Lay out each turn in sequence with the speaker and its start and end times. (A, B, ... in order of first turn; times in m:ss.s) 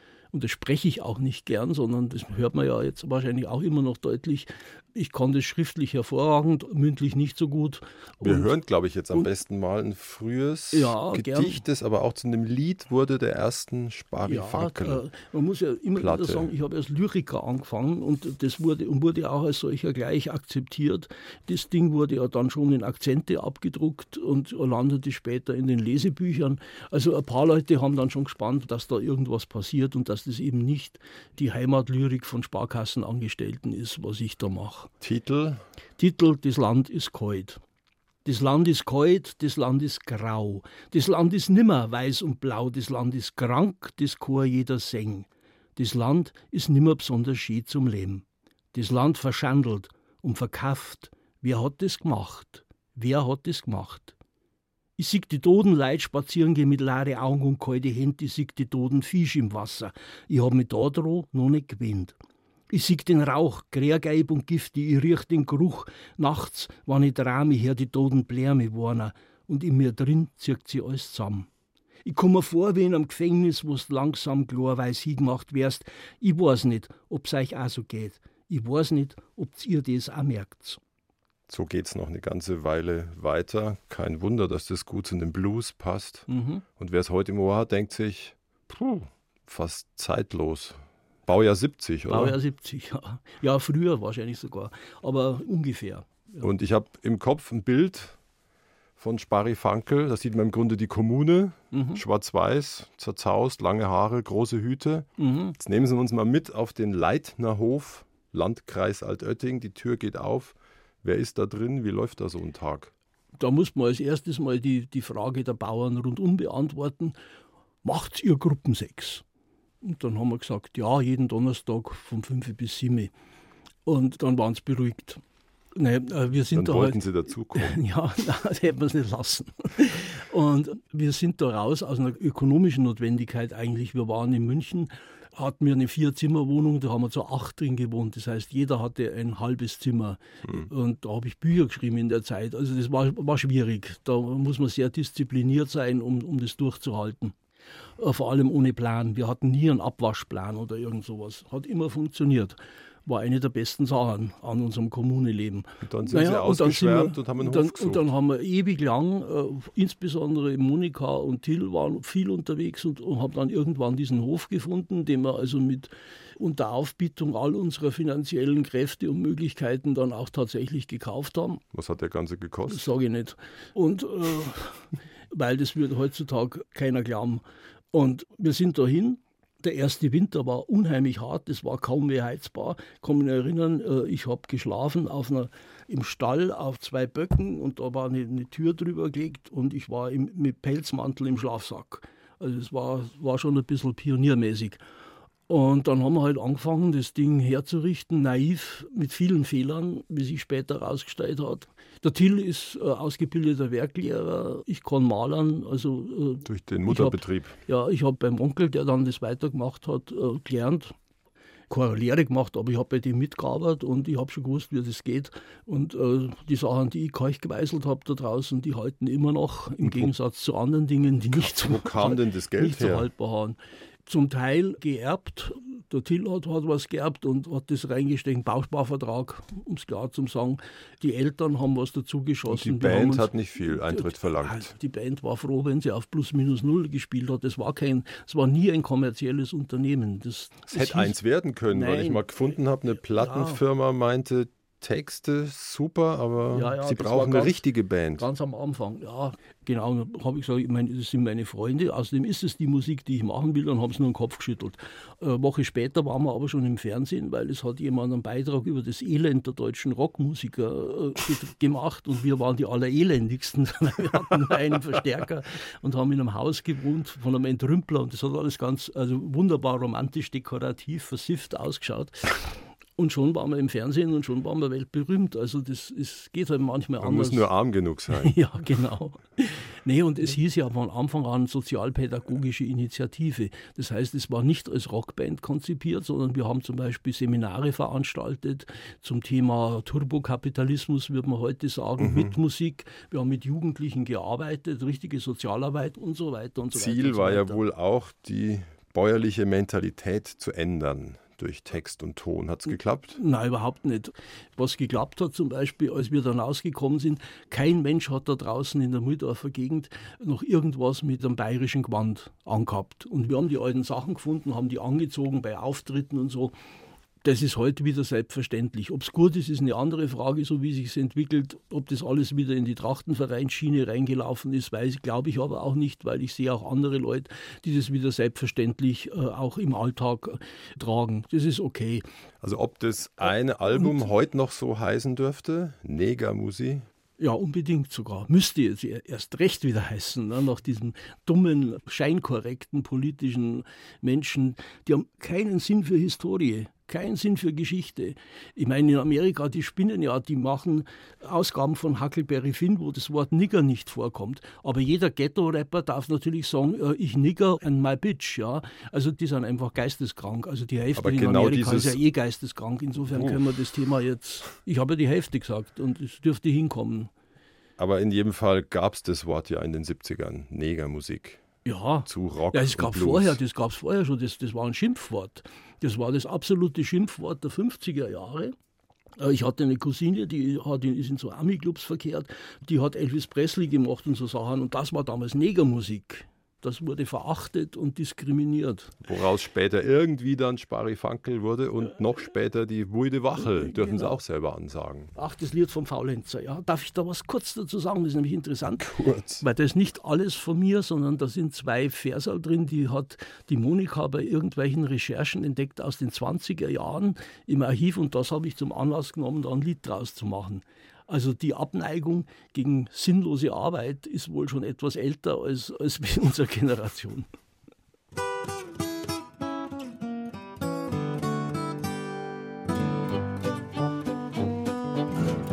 0:00.3-0:08.5 A
0:08.2-0:15.0 B
0:10.7-0:11.6 A
0:14.2-0:34.9 A
0:16.0-0:16.5 B
0:35.0-0:35.6 B
0:36.0-0:37.6 A
0:38.2-0:54.2 A
0:55.0-1:02.2 A
1:02.7-1:11.5 A
1:12.0-1:20.8 A
1:21.5-1:32.4 B
1:26.3-1:26.6 A
1:32.1-1:36.5 A
1:36.4-1:38.2 B
1:39.0-1:52.9 B
1:41.7-1:42.0 A
1:45.2-1:45.6 A
1:53.4-1:57.2 A
1:57.8-1:59.2 A
1:59.8-2:03.1 A
2:03.9-2:05.2 A
2:05.8-2:07.0 A
2:06.5-2:07.8 B
2:07.6-2:27.4 A
2:28.0-2:51.6 A
2:35.8-2:38.1 B
2:51.7-2:52.9 B
2:52.7-3:14.8 A
3:15.5-3:30.9 A
3:26.4-3:27.6 B
3:31.7-4:01.2 A
3:39.8-3:40.1 B
3:41.3-3:43.1 B
3:52.5-3:54.7 B
4:00.7-4:08.3 B
4:01.7-4:02.3 A
4:03.0-4:03.6 A
4:06.5-4:07.6 A
4:08.2-4:37.5 A
4:37.0-4:38.4 B
4:38.1-4:57.6 A
4:52.0-4:52.4 B
4:56.7-5:03.2 B
5:03.2-5:16.5 A
5:17.2-5:32.0 A
5:32.4-5:36.9 B
5:33.7-5:34.1 A
5:37.2-6:07.1 A
6:01.0-6:02.0 B
6:03.0-6:03.6 B
6:07.8-6:11.4 B
6:11.6-6:18.5 A
6:12.1-6:13.4 B
6:19.2-6:29.0 A
6:29.0-6:35.1 B
6:33.5-6:34.2 A
6:35.2-6:57.3 A
6:38.8-6:39.4 B